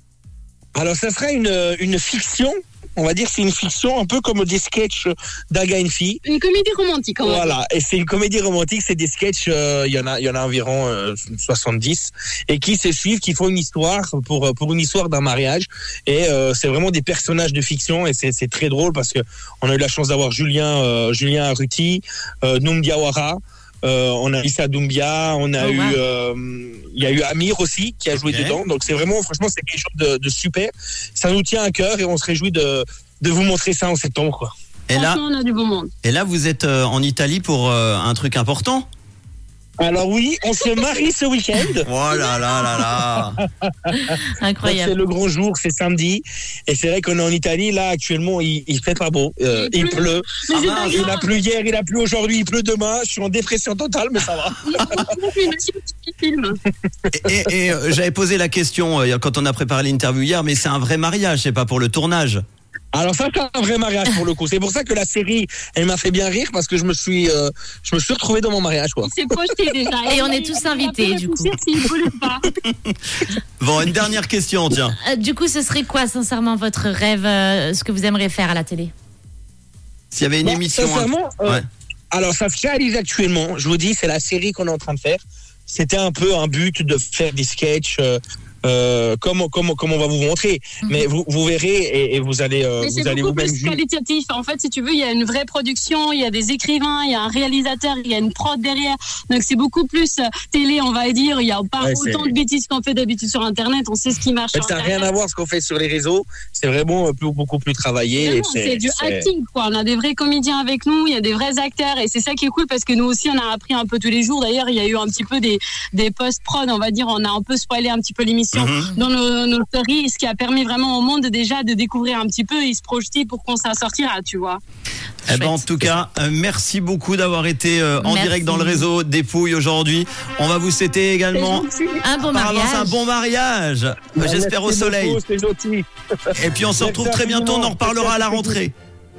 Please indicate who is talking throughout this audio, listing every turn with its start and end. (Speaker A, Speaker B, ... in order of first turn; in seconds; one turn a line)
Speaker A: 0.8-6.2
Speaker B: 6.2-7.6
Speaker A: 7.2-34.5
Speaker C: 25.6-26.0
Speaker D: 28.2-28.6
Speaker D: 34.9-35.2
Speaker B: 34.9-35.9
Speaker D: 36.0-38.9
Speaker A: 39.8-41.9
Speaker D: 41.8-43.4
Speaker A: 43.4-55.0
Speaker C: 44.1-44.9
Speaker B: 49.5-51.3
Speaker D: 50.6-51.0
Speaker B: 54.6-56.6
Speaker D: 57.1-62.4
Speaker A: 62.9-69.1
Speaker B: 69.0-72.5
Speaker C: 70.1-71.5
Speaker D: 73.3-75.0
Speaker C: 75.0-78.9
Speaker D: 80.1-81.7
Speaker A: 80.4-93.8
Speaker B: 92.8-105.1
Speaker A: 101.8-102.3
Speaker A: 104.5-109.3
Speaker B: 108.2-124.6
Speaker D: 118.5-118.9
Speaker D: 125.3-131.7
Speaker C: 125.3-125.7
Speaker C: 128.0-128.8
Speaker A: 131.3-131.8
Speaker C: 132.0-133.0
Speaker D: 132.3-135.2
Speaker A: 134.2-135.8
Speaker D: 136.3-138.7
Speaker A: 136.8-138.6